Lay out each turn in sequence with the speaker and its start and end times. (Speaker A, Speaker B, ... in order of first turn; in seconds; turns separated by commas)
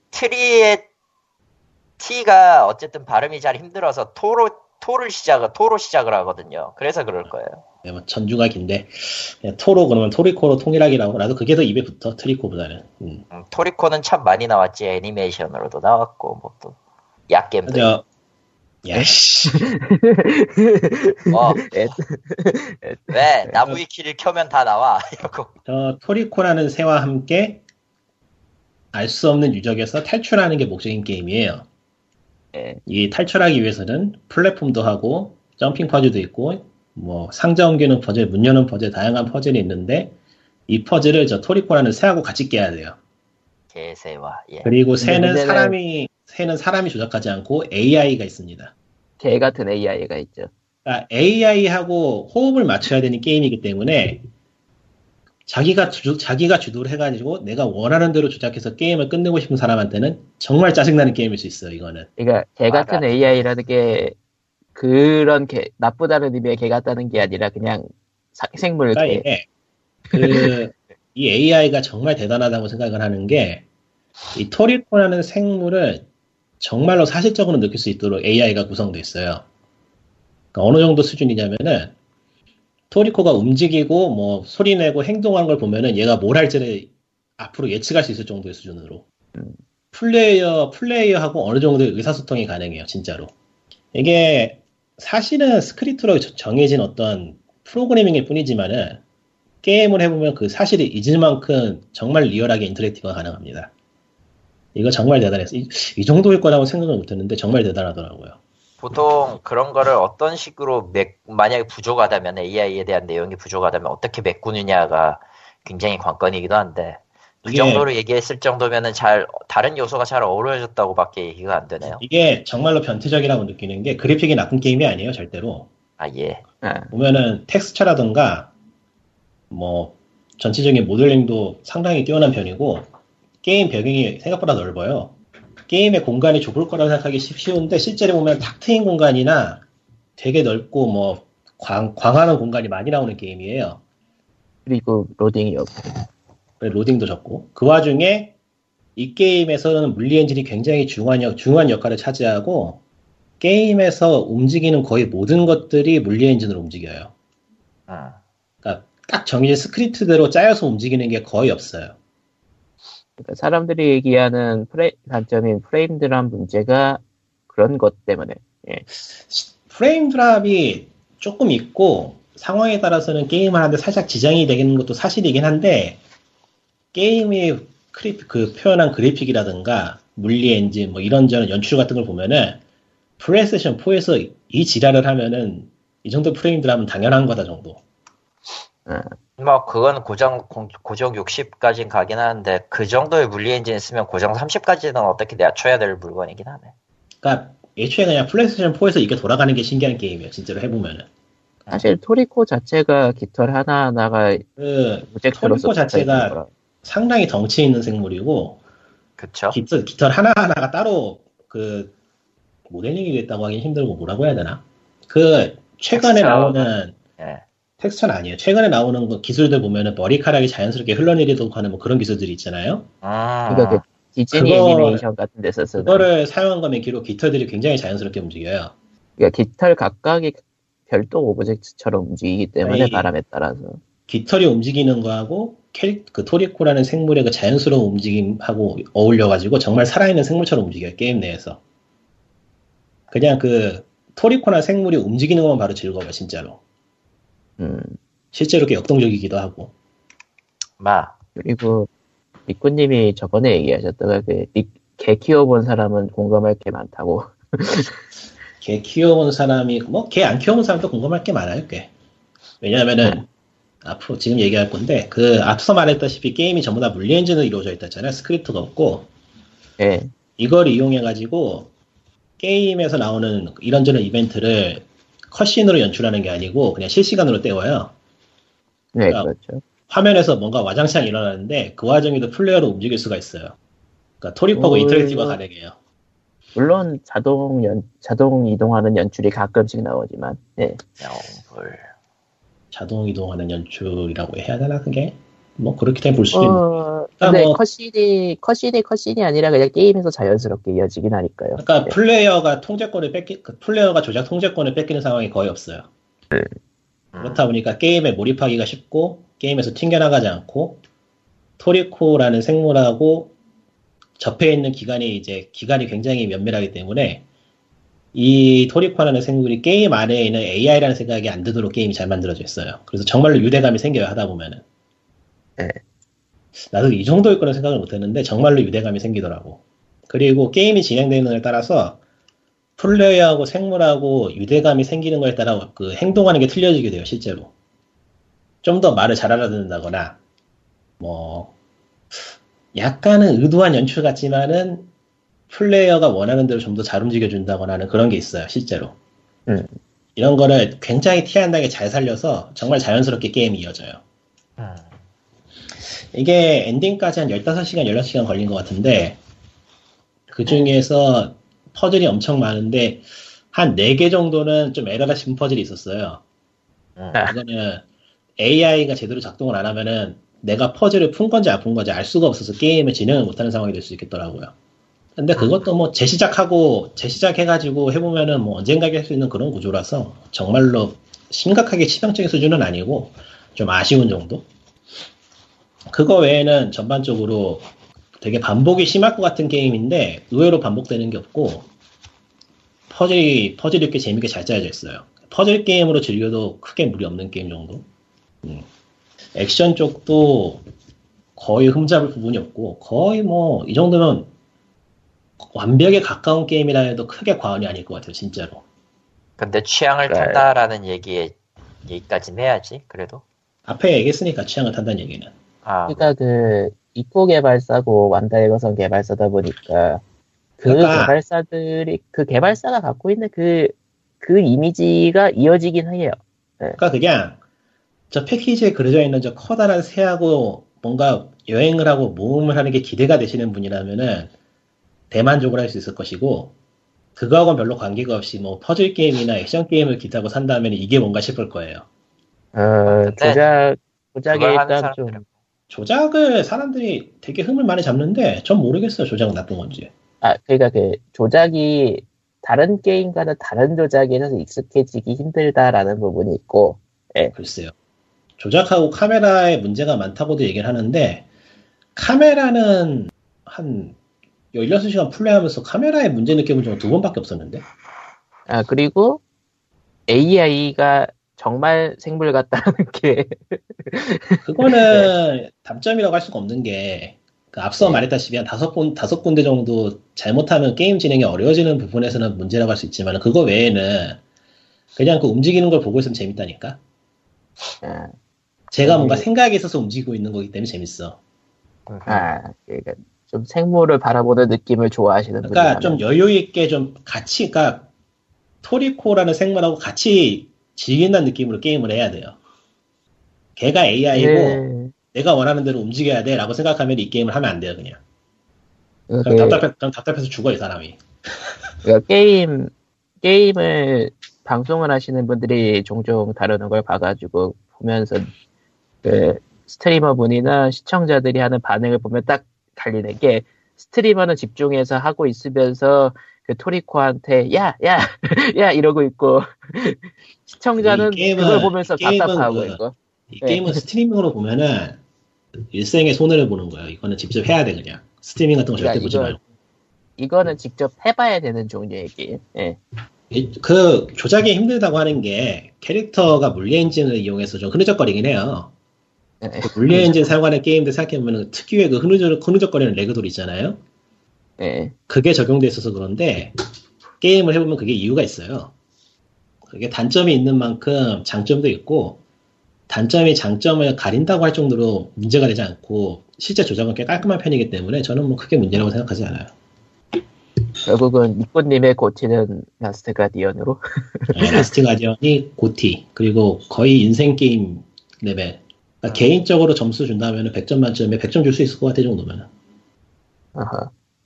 Speaker A: 0.1-0.9, Speaker A: 2.0-7.6, Speaker B: 7.8-13.2, Speaker A: 13.3-16.8, Speaker A: 17.3-17.9, Speaker B: 17.7-18.1, Speaker B: 18.8-19.7, Speaker C: 18.9-23.5, Speaker A: 21.3-21.7, Speaker A: 23.1-25.5, Speaker B: 25.7-27.6, Speaker B: 28.9-31.7, Speaker C: 32.5-32.8, Speaker B: 32.9-40.1, Speaker B: 40.7-43.0, Speaker A: 43.7-44.7, Speaker B: 44.6-48.7, Speaker C: 45.0-45.8, Speaker C: 49.2-50.5, Speaker B: 50.9-54.3, Speaker B: 55.5-62.1, Speaker C: 62.2-64.2, Speaker A: 62.7-63.1, Speaker C: 64.8-69.3, Speaker B: 68.9-69.5, Speaker B: 70.1-73.6, Speaker C: 70.1-70.5, Speaker B: 74.3-76.0, Speaker B: 76.6-79.5, Speaker B: 80.5-81.9, Speaker B: 82.9-89.0, Speaker B: 89.9-93.3, Speaker B: 93.9-99.0, Speaker B: 99.6-103.7, Speaker B: 104.8-108.4, Speaker A: 108.8-122.0, Speaker B: 117.5-117.9, Speaker B: 122.0-125.7, Speaker A: 126.0-126.4, Speaker C: 126.6-126.9, Speaker B: 126.9-128.5, Speaker B: 129.5-132.9, Speaker B: 133.4-135.2, Speaker B: 135.7-139.6, Speaker B: 140.2-143.8, Speaker C: 144.7-146.0, Speaker B: 146.6-148.3, Speaker B: 149.0-152.8, Speaker B: 153.4-157.1, Speaker A: 157.9-158.2, Speaker B: 158.6-161.9, Speaker C: 163.2-168.9, Speaker B: 169.3-176.0, Speaker B: 176.9-182.6, Speaker B: 183.2-187.8, Speaker C: 188.9-189.1, Speaker A: 189.4-196.7, Speaker B: 197.2-201.1, Speaker A: 201.7-201.9, Speaker C: 201.7-204.4, Speaker B: 204.6-208.6, Speaker C: 205.2-206.5, Speaker A: 209.2-209.6, Speaker B: 209.5-211.9, Speaker B: 212.7-216.9, Speaker A: 215.9-217.4, Speaker B: 217.8-222.9, Speaker A: 223.0-223.8, Speaker C: 223.5-226.1, Speaker B: 224.3-225.0, Speaker B: 225.8-228.7, Speaker C: 229.2-233.8, Speaker B: 232.6-233.1, Speaker B: 234.1-241.6, Speaker B: 243.1-246.6, Speaker C: 247.6-248.0, Speaker B: 248.3-249.7, Speaker A: 250.8-251.2, Speaker C: 251.4-251.9, Speaker C: 252.5-257.9, Speaker B: 258.6-261.9, Speaker B: 262.6-263.3, Speaker B: 263.8-269.1, Speaker C: 269.8-270.1, Speaker B: 270.4-271.7, Speaker B: 272.4-277.9, Speaker C: 278.9-279.6, Speaker B: 279.9-283.6, Speaker B: 284.2-285.8, Speaker C: 284.6-285.4, Speaker C: 286.6-290.8, Speaker A: 291.0-291.9, Speaker B: 292.7-296.6, Speaker C: 296.3-302.0, Speaker B: 297.2-297.6, Speaker B: 301.6-305.9, Speaker A: 307.1-307.5, Speaker B: 307.2-310.8, Speaker B: 311.6-313.3, Speaker B: 314.2-317.2, Speaker B: 318.1-324.6, Speaker B: 326.7-332.0, Speaker B: 332.8-337.5, Speaker B: 338.6-340.2, Speaker B: 341.0-341.5, Speaker B: 342.7-344.9, Speaker B: 345.5-348.9, Speaker C: 349.5-349.8, Speaker B: 350.2-354.0, Speaker A: 354.6-354.9, Speaker B: 356.1-359.2, Speaker B: 360.3-366.2, Speaker B: 367.3-367.8, Speaker B: 368.4-374.5, Speaker B: 375.2-384.5, Speaker B: 385.9-387.6, Speaker B: 388.2-391.7, Speaker B: 392.9-397.9, Speaker B: 399.3-400.6, Speaker B: 401.4-404.3, Speaker B: 405.4-408.6, Speaker A: 409.4-411.4, Speaker C: 410.1-410.4, Speaker A: 411.9-413.2, Speaker B: 413.7-415.3, Speaker A: 415.6-416.1, Speaker C: 415.9-420.0, Speaker C: 420.6-426.8, Speaker B: 420.6-421.2, Speaker B: 426.8-427.4, Speaker B: 428.1-434.3, Speaker B: 435.1-436.5, Speaker B: 437.2-441.9, Speaker C: 442.6-445.2, Speaker A: 442.9-443.4, Speaker A: 444.3-445.2, Speaker B: 445.7-449.9, Speaker C: 450.2-457.3, Speaker B: 457.4-457.7, Speaker B: 458.4-461.2, Speaker B: 462.0-464.0, Speaker B: 464.5-467.6, Speaker C: 468.5-469.2, Speaker C: 470.1-475.1, Speaker B: 474.4-484.2, Speaker B: 485.0-486.8, Speaker C: 487.8-488.1, Speaker B: 488.7-491.2, Speaker C: 488.9-489.3, Speaker C: 492.1-496.0, Speaker B: 495.4-497.9, Speaker B: 498.6-502.4, Speaker B: 503.6-508.0, Speaker C: 504.1-504.9, Speaker C: 509.1-509.6, Speaker B: 509.2-511.0, Speaker C: 511.8-518.3, Speaker C: 519.0-533.8, Speaker B: 530.8-532.8, Speaker B: 533.3-535.0, Speaker B: 535.7-539.4, Speaker C: 538.8-539.4, Speaker C: 540.2-542.8, Speaker B: 543.3-548.7, Speaker C: 549.4-550.3, Speaker B: 549.6-553.8, Speaker C: 554.6-554.9, Speaker B: 555.1-556.5, Speaker B: 557.2-558.7, Speaker B: 559.7-562.2, Speaker B: 562.9-569.5, Speaker C: 570.9-574.7, Speaker B: 574.3-582.5, Speaker C: 583.6-583.9